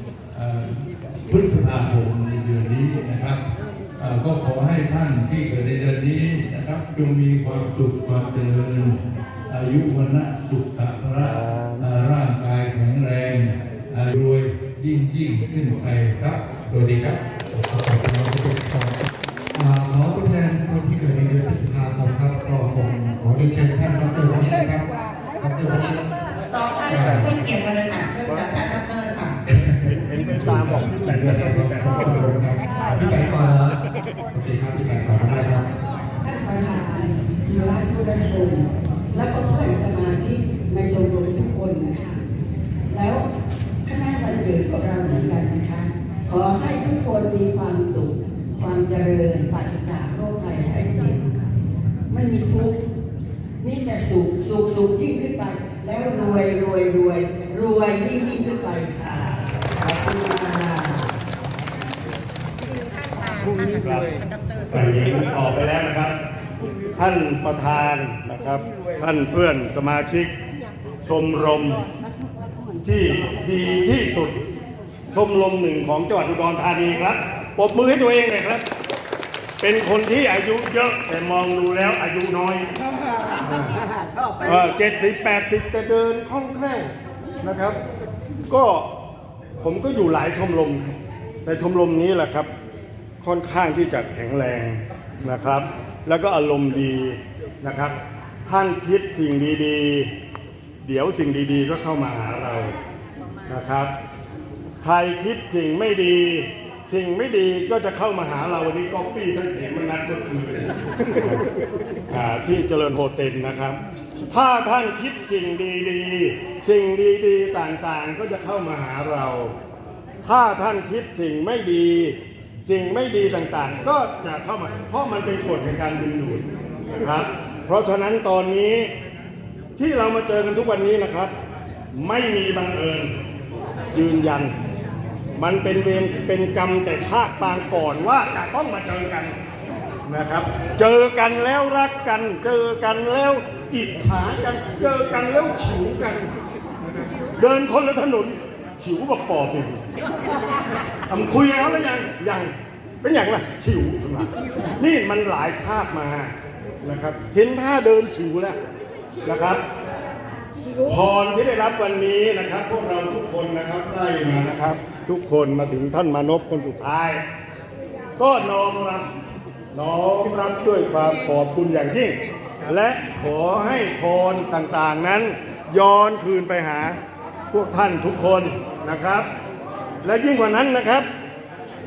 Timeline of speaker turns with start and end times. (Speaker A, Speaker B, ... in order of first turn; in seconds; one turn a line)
Speaker A: 0.3-3.4
Speaker A: 4.0-9.0
Speaker A: 9.5-17.2
Speaker B: 11.2-11.8
Speaker C: 17.6-19.0
Speaker C: 19.5-24.9
Speaker C: 25.4-26.0
Speaker D: 26.5-29.4
Speaker C: 26.9-27.3
Speaker C: 29.5-33.8
Speaker B: 29.8-32.2
Speaker C: 34.3-35.7
Speaker E: 36.2-42.2
Speaker E: 42.9-43.2
Speaker E: 43.9-51.4
Speaker E: 52.1-52.8
Speaker E: 53.6-61.1
Speaker D: 63.0-63.7
Speaker B: 63.6-64.2
Speaker B: 64.7-66.1
Speaker B: 67.0-70.3
Speaker B: 71.0-71.8
Speaker B: 72.8-74.4
Speaker B: 75.1-78.7
Speaker B: 79.6-82.7
Speaker B: 83.4-83.8
Speaker B: 84.4-87.8
Speaker B: 88.5-88.9
Speaker B: 89.6-90.9
Speaker B: 91.5-92.5
Speaker B: 93.2-100.1
Speaker B: 100.8-102.8
Speaker B: 103.5-103.9
Speaker B: 104.8-111.5
Speaker B: 112.1-113.8
Speaker B: 114.3-119.5
Speaker B: 120.2-126.5
Speaker B: 127.0-128.9
Speaker B: 129.8-131.3
Speaker B: 131.9-133.1
Speaker B: 133.9-134.5
Speaker B: 135.4-139.3
Speaker B: 140.1-146.3
Speaker B: 146.8-149.8
Speaker B: 151.1-158.6
Speaker B: 159.2-159.6
Speaker B: 160.8-167.2
Speaker B: 168.2-169.1
Speaker B: 169.7-177.0
Speaker B: 177.5-179.3
Speaker B: 180.0-181.1